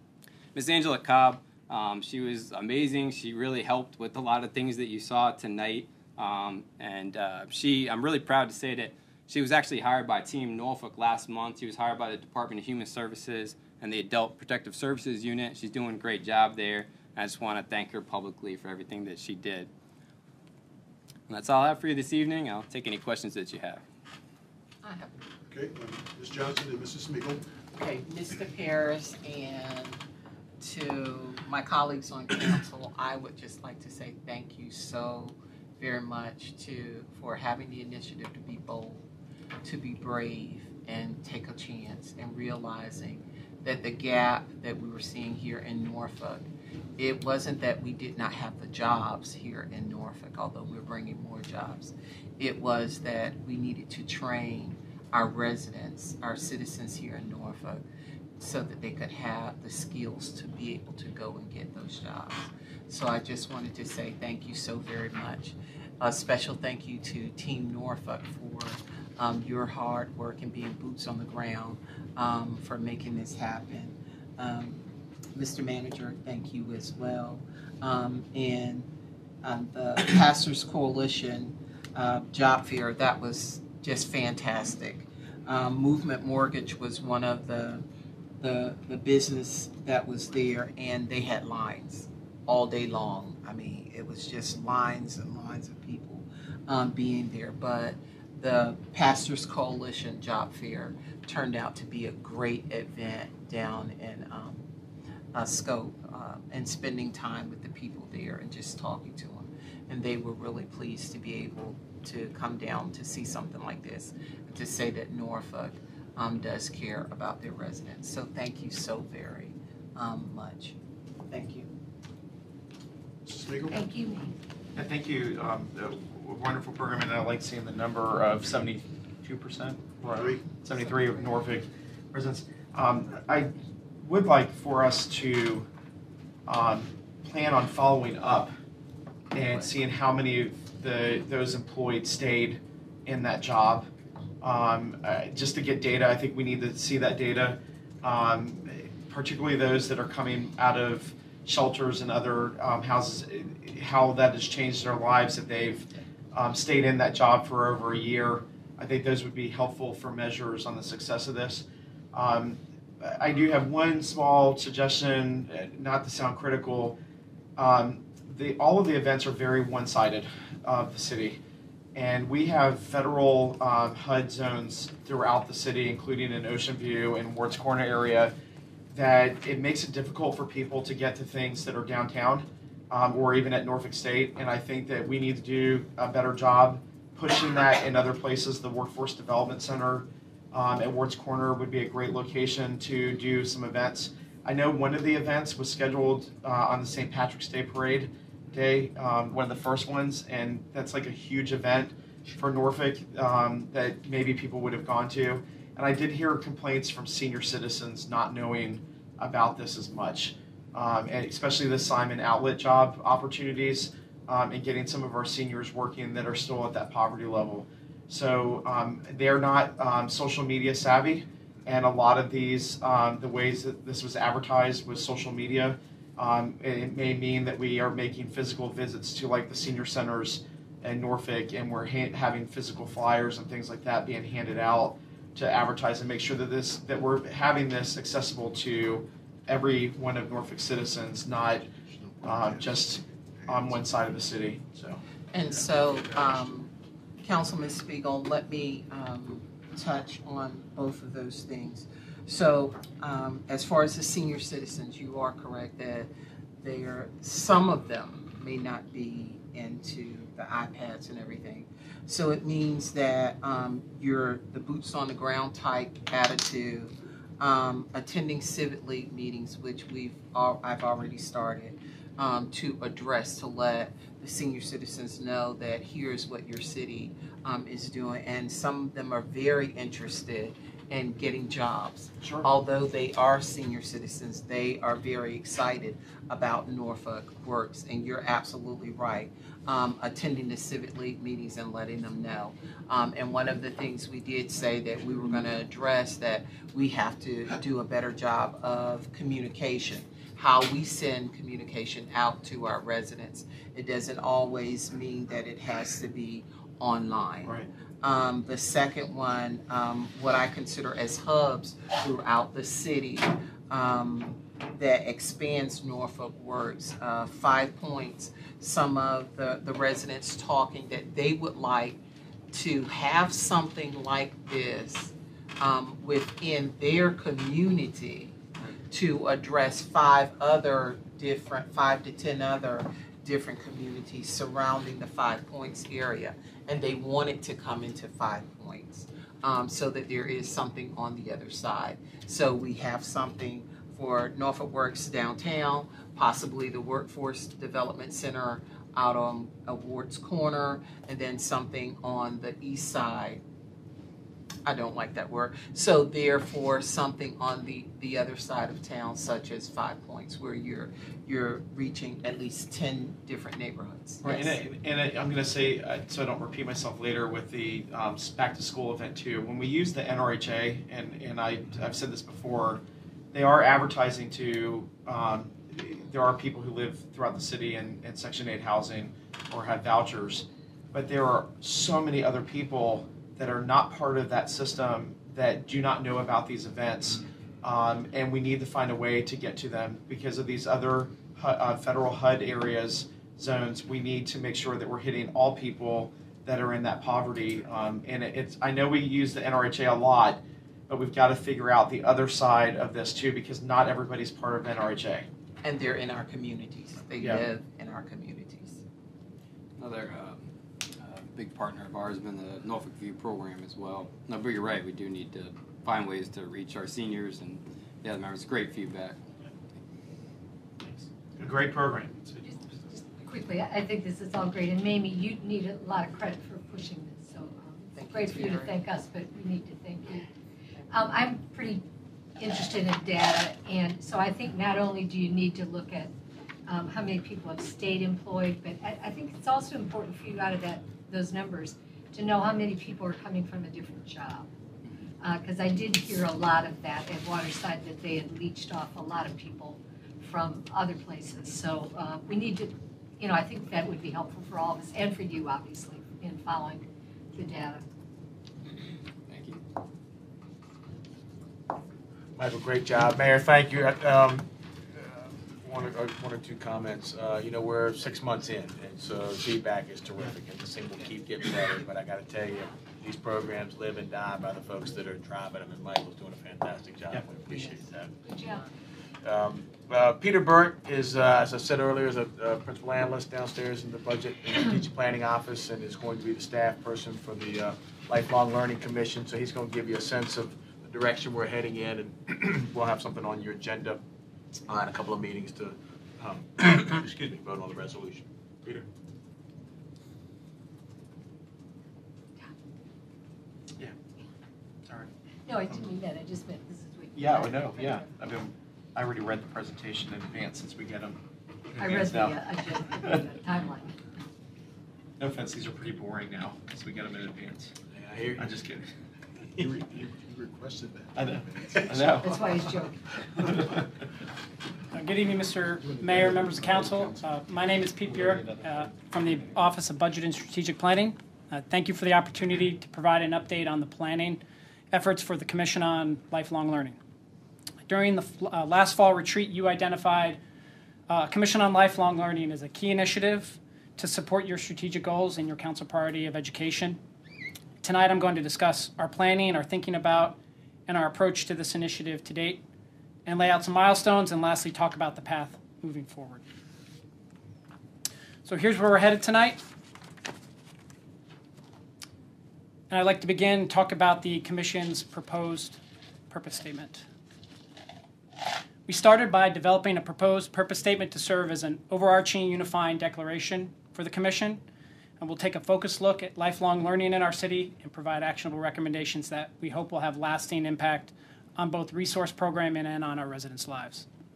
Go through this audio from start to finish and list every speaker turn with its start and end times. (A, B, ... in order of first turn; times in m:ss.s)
0:00.6-0:19.7 A
0:21.3-0:23.8 A
0:24.8-0:25.1 B
0:25.5-0:27.4 C
0:27.7-0:30.0 B
0:30.6-0:39.0 B
0:39.6-0:46.4 B
0:47.0-0:57.8 B
0:58.4-1:14.8 B
1:15.4-1:18.9 B
1:19.4-1:27.9 B
1:28.4-1:44.6 B
1:45.3-2:00.8 B
2:01.3-2:01.7 B
2:03.2-2:03.8 C
2:03.7-2:04.4 D
2:04.8-2:09.9 E
2:10.0-2:10.4 C
2:10.6-2:15.7 E
2:16.5-2:18.5 E
2:19.3-2:23.9 E
2:24.4-2:47.0 E
2:47.6-2:51.4 E
2:52.0-2:58.3 E
2:58.9-4:01.7 E
4:01.9-4:04.0 C
4:02.2-4:05.0 E
4:05.3-4:06.7 B
4:05.8-4:06.4 C
4:07.2-4:16.1 B
4:16.6-5:22.0 B
4:42.2-4:42.5 E
5:22.5-5:28.4 B
5:28.9-5:53.4 B
5:54.6-6:04.6 B
6:04.2-6:45.3 E
6:45.6-6:48.8 B
6:47.2-6:47.5 E
6:49.8-6:59.2 A
7:01.4-7:02.2 E
7:02.4-7:10.3 D
7:07.9-7:08.8 B
7:10.9-7:11.8 D
7:12.4-7:16.1 D
7:16.7-7:24.5 D
7:25.2-7:37.8 D
7:39.3-7:39.6 A
7:42.4-7:44.5 F
7:45.0-7:58.1 F
7:57.1-7:57.8 E
7:58.2-7:58.7 D
7:59.2-8:14.0 F
8:14.7-8:18.9 F
8:24.9-8:25.1 E
8:25.5-8:28.1 D
8:27.2-8:31.2 E
8:31.8-8:32.4 E
8:31.8-8:33.9 D
8:33.0-8:33.3 E
8:35.2-8:37.7 E
8:37.9-8:38.6 F
8:38.4-8:38.9 E
8:39.6-8:42.2 C
8:41.2-8:42.4 E
8:42.2-8:43.0 D
8:43.4-8:43.8 E
8:44.9-8:54.4 G
8:45.8-8:47.2 C
8:48.1-8:49.5 E
8:54.9-8:57.0 G
8:57.9-9:00.4 G
9:01.1-9:07.0 G
9:07.8-9:12.6 G
9:13.3-9:16.4 G
9:18.4-9:19.6 G
9:22.9-9:27.0 G
9:28.9-9:34.6 G
9:35.2-9:44.1 G